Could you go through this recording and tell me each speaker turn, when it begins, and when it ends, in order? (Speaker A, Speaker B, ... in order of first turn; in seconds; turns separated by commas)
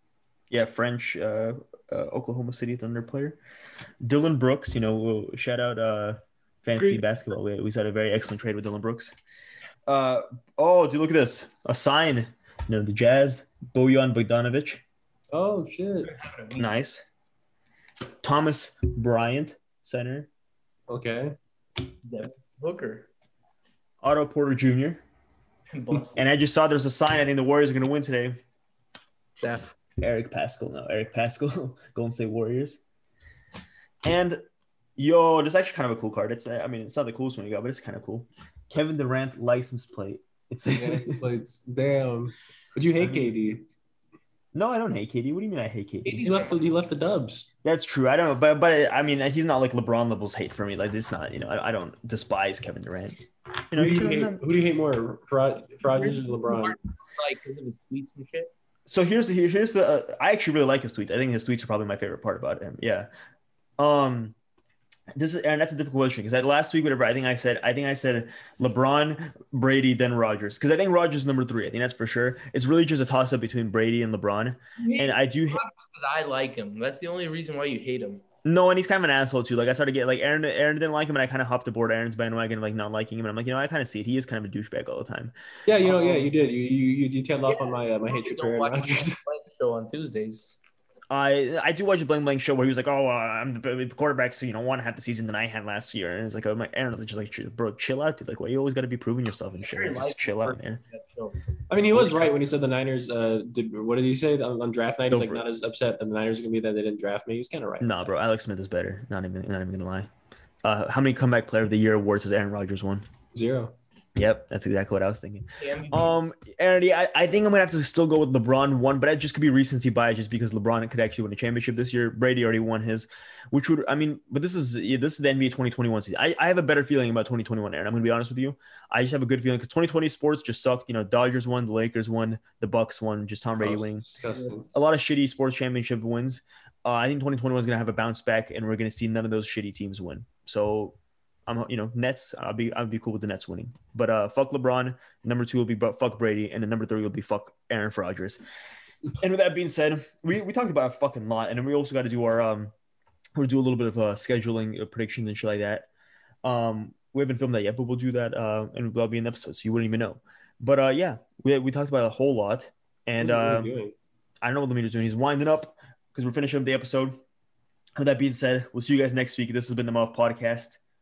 Speaker A: 0.5-3.4, Speaker A: 4.0-9.1, Speaker B: 6.7-7.0, Speaker A: 9.9-14.8, Speaker B: 15.3-16.1, Speaker C: 16.1-16.6, Speaker A: 16.6-17.0, Speaker A: 18.2-20.3, Speaker B: 20.9-21.4, Speaker C: 22.0-23.1, Speaker A: 24.0-25.0, Speaker C: 25.7-26.2, Speaker A: 26.1-28.4, Speaker C: 29.4-29.7, Speaker A: 30.0-32.8, Speaker A: 34.0-34.4, Speaker A: 35.0-41.2, Speaker B: 40.7-43.7, Speaker A: 43.0-43.4, Speaker A: 44.5-46.3, Speaker C: 46.0-46.7, Speaker B: 46.2-47.5, Speaker A: 47.6-53.2, Speaker A: 53.7-54.4, Speaker B: 53.7-56.8, Speaker C: 55.9-58.5, Speaker A: 58.9-63.1, Speaker A: 63.8-64.3, Speaker A: 65.1-75.6, Speaker C: 74.8-78.2, Speaker A: 78.4-86.3, Speaker B: 85.7-89.2, Speaker C: 87.5-90.6, Speaker A: 91.1-100.8, Speaker C: 99.6-101.4, Speaker B: 101.7-107.9, Speaker A: 101.9-102.3, Speaker A: 105.1-105.4, Speaker A: 107.8-110.1, Speaker A: 110.6-113.0, Speaker B: 113.3-113.7, Speaker A: 114.2-134.0, Speaker C: 115.6-116.1, Speaker B: 133.6-134.7, Speaker A: 134.7-148.4, Speaker A: 149.2-152.7, Speaker A: 153.3-155.9, Speaker A: 156.4-163.8, Speaker B: 163.2-163.9, Speaker A: 164.4-167.2, Speaker A: 168.0-170.8